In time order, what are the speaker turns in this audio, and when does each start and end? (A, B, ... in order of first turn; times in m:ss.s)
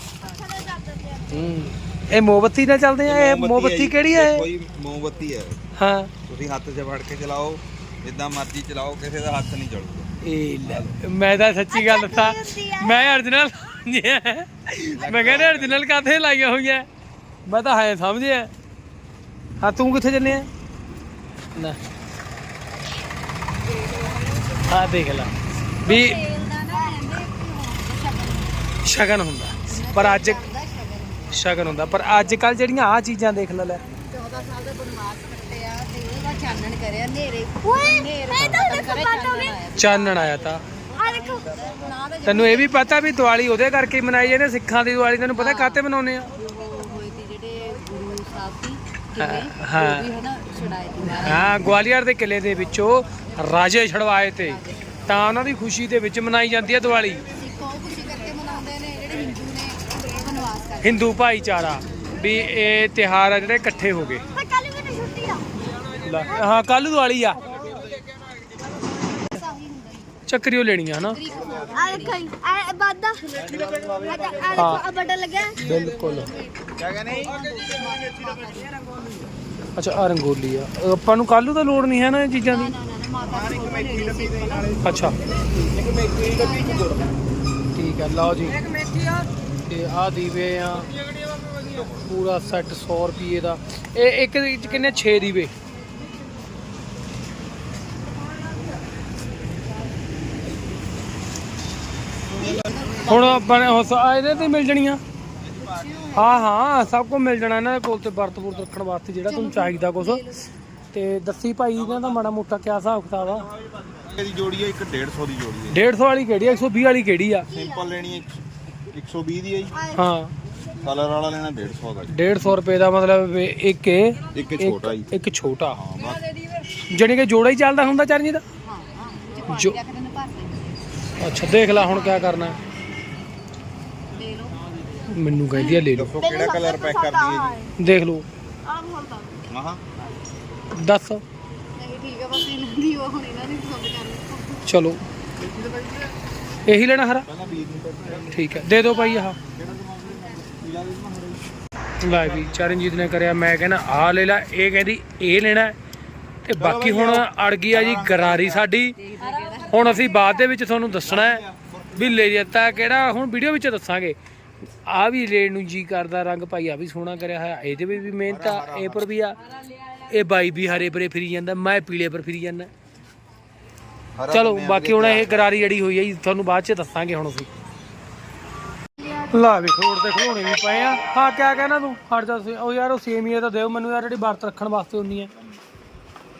0:00.2-0:01.4 A
0:01.3-0:04.5 B
0:03.0-0:05.6 C
0:05.8-0:06.1 B
0:06.3-0:10.1 C
0:10.2-0:16.8 B
0:10.6-0:11.0 C
0:11.7-0:12.9 A
0:14.9-0:15.8 C
0:17.4-0:18.5 B
0:19.6-0:20.5 B
0:23.8-0:24.2 D
0:24.6-0:26.2 B
0:25.8-0:28.7 D
0:28.8-0:30.4 B
0:29.7-0:32.2 D
0:31.3-0:33.8 B
0:33.8-0:43.0 D
0:37.6-0:39.6 A
0:38.3-0:38.7 B
0:39.7-0:40.6 B
0:41.0-0:41.4 A
0:42.2-0:46.3 B
0:45.3-0:45.8 D
0:46.3-0:51.7 D
0:49.2-0:50.0 B
0:51.0-0:57.2 B
0:54.3-0:54.9 D
0:57.3-1:01.1 D
1:00.8-1:04.2 B
1:04.3-1:05.5 A
1:06.0-1:07.5 B
1:07.5-1:08.3 C
1:09.0-1:10.0 A
1:10.2-1:11.3 B
1:11.0-1:12.3 D
1:11.3-1:12.1 C
1:11.7-1:13.4 A
1:13.2-1:15.0 C
1:14.0-1:15.6 A
1:14.5-1:14.9 B
1:15.6-1:16.3 B
1:15.7-1:16.1 C
1:16.1-1:19.0 D
1:16.8-1:18.6 C
1:19.8-1:22.7 B
1:22.4-1:24.7 D
1:23.2-1:27.0 C
1:24.8-1:25.2 B
1:26.2-1:27.0 D
1:27.7-1:28.6 B
1:28.8-1:29.2 C
1:29.7-1:30.9 B
1:31.0-1:32.0 C
1:31.9-1:35.5 B
1:42.3-1:43.6 D
1:43.0-1:45.0 B
1:45.4-1:46.1 C
1:45.6-1:46.4 D
1:46.1-1:50.3 B
1:49.2-1:50.4 D
1:50.9-1:53.5 B
1:51.8-1:52.1 C
1:53.8-1:55.8 C
1:55.7-1:57.5 B
1:57.5-1:59.8 C
1:59.9-2:00.3 B
2:00.8-2:02.1 C
2:02.0-2:05.8 B
2:04.3-2:05.0 C
2:05.7-2:06.2 C
2:06.8-2:08.4 B
2:08.6-2:10.8 D
2:09.5-2:09.8 B
2:11.2-2:12.6 B
2:11.5-2:12.5 D
2:14.1-2:14.6 D
2:15.1-2:16.2 B
2:15.5-2:15.8 D
2:15.9-2:17.7 C
2:16.2-2:17.7 A
2:17.8-2:18.2 B
2:18.7-2:19.4 D
2:19.4-2:19.8 C
2:20.7-2:21.2 B
2:21.8-2:24.6 D
2:24.6-2:25.0 B
2:25.4-2:26.0 C
2:26.6-2:27.3 B
2:27.3-2:31.4 C
2:28.2-2:29.4 B
2:32.0-2:35.8 B
2:32.0-2:32.8 C
2:36.4-2:39.0 B
2:36.6-2:38.7 C
2:39.0-2:40.1 D
2:39.7-2:44.2 B
2:41.0-2:42.4 C
2:44.8-2:49.4 B
2:48.3-2:49.0 C
2:50.0-2:52.7 B
2:54.2-2:55.5 C
2:54.3-2:57.5 B
2:59.2-3:05.3 B